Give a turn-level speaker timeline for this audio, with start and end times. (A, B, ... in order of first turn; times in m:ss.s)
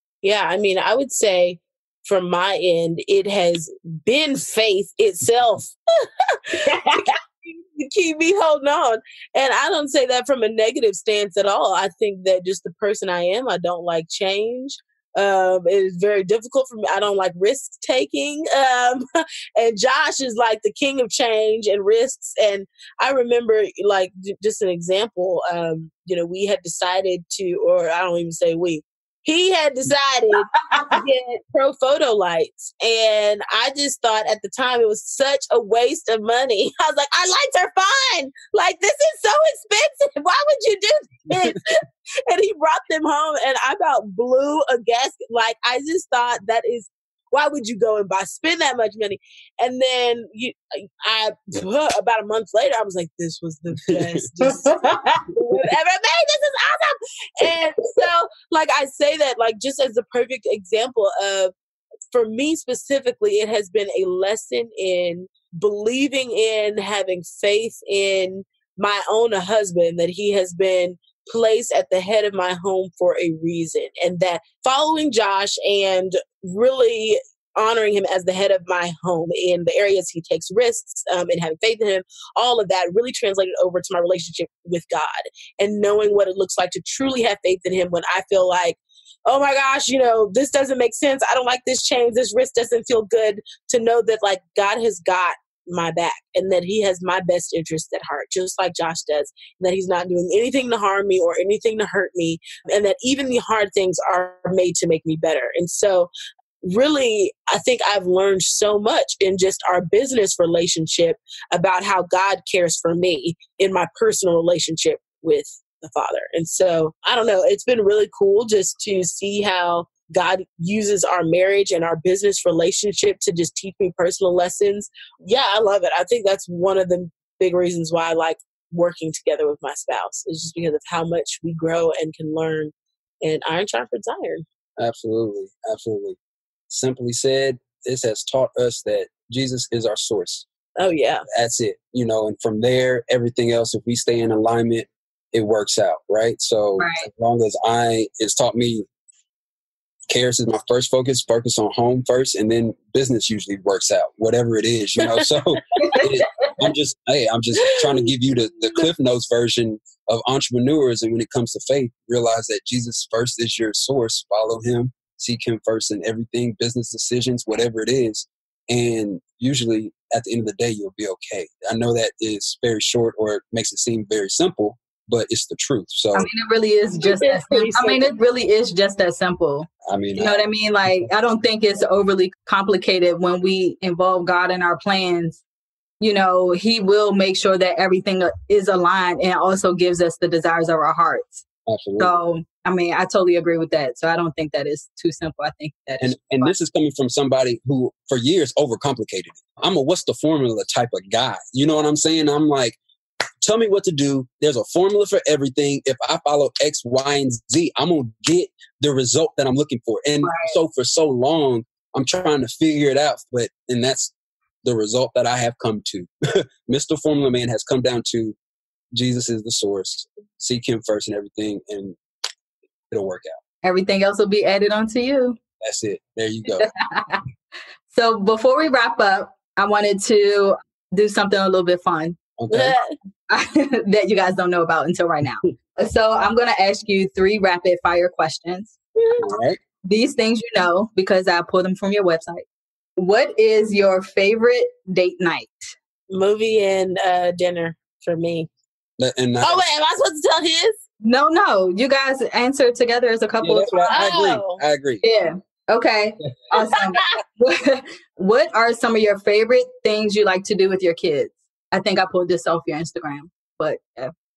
0:00.2-1:01.5 A
0:30.6-0:31.0 B
0:53.9-0:54.2 C
0:54.4-0:55.2 B
1:02.1-1:46.1 A
1:46.6-2:14.4 A
2:14.8-2:16.2 C
2:16.7-2:20.5 C
2:20.8-2:21.2 A
2:21.3-2:28.9 C
2:26.8-2:27.0 B
2:30.1-2:56.3 C
2:35.0-2:35.3 A
2:35.8-2:36.4 B
2:56.1-3:05.4 B
2:57.0-2:58.1 A
2:59.8-3:00.4 C
3:06.0-3:11.4 B
3:11.7-3:12.2 C
3:12.0-3:16.5 B
3:16.0-3:22.8 C
3:23.4-3:38.4 C
3:30.2-3:30.6 B
3:38.9-3:42.0 C
3:42.9-3:43.4 C
3:43.6-3:45.4 B
3:45.6-3:46.6 C
3:46.6-3:47.2 B
3:47.9-3:52.2 B
3:52.4-3:52.8 C
3:52.5-3:52.9 A
3:53.3-3:58.7 B
3:59.0-3:59.3 A
3:59.2-3:59.6 C
3:59.8-4:02.4 B
4:03.0-4:05.7 B
4:06.1-4:08.5 A
4:09.0-4:09.6 C
4:09.4-4:10.8 A
4:11.0-4:14.0 B
4:13.4-4:15.0 C
4:13.9-4:14.6 A
4:15.0-4:24.1 B